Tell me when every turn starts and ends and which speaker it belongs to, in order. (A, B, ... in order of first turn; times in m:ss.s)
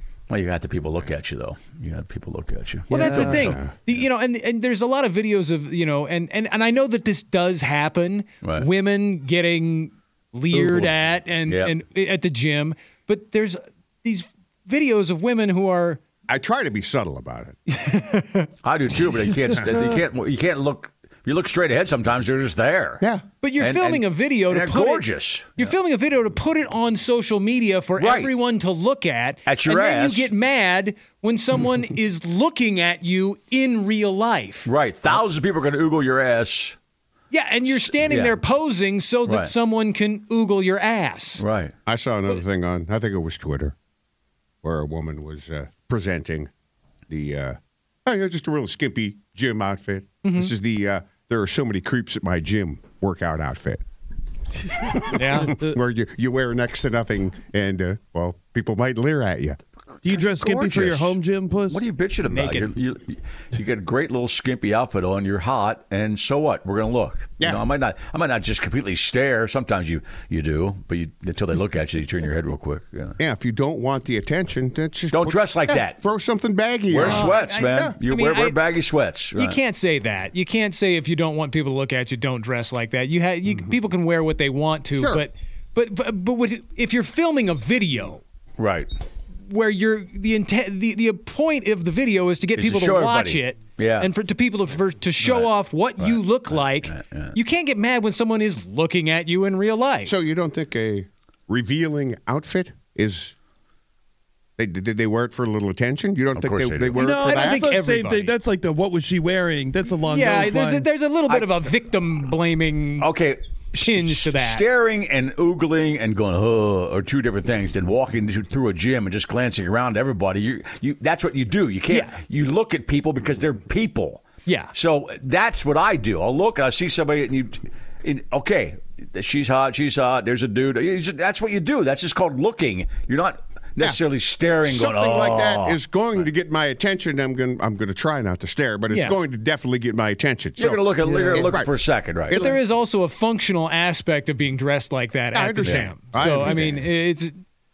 0:00.3-0:04.0 A
0:02.9-0:16.0 B
0:03.4-0:03.7 C
0:10.5-0:11.7 A
0:16.3-0:17.6 C
0:17.7-0:18.5 B
0:18.6-0:23.0 A
0:23.4-0:34.7 B
0:23.6-0:25.7 A
0:28.0-0:28.3 A
0:29.5-0:30.3 A
0:34.6-0:36.8 A
0:37.3-0:41.4 B
0:37.8-0:38.4 A
0:39.2-0:39.5 A
0:41.4-0:41.7 A
0:41.8-0:43.7 C
0:44.6-0:46.5 C
0:47.1-0:53.8 C
0:50.2-0:50.5 B
0:54.8-0:59.6 C
0:55.1-0:55.5 B
1:00.0-1:13.2 A
1:00.0-1:01.8 D
1:02.2-1:02.7 B
1:13.2-1:18.0 C
1:15.1-1:16.0 A
1:16.9-1:19.6 A
1:17.0-1:18.6 B
1:19.3-1:28.2 B
1:25.0-1:25.2 C
1:28.6-1:28.9 A
1:29.4-1:40.1 B
1:32.6-1:34.1 A
1:35.2-1:37.4 A
1:40.0-1:43.3 C
1:44.6-1:47.7 C
1:46.4-1:47.1 A
1:46.9-1:50.9 D
1:47.3-1:48.3 B
1:50.1-1:53.1 B
1:53.0-2:16.2 A
1:53.8-1:54.6 B
2:04.4-2:04.7 B
2:14.6-2:21.7 C
2:18.9-2:19.2 B
2:20.6-2:22.4 A
2:21.0-2:21.5 D
2:22.3-2:22.6 C
2:22.3-2:27.4 B
2:25.3-2:26.8 C
2:25.6-2:25.9 A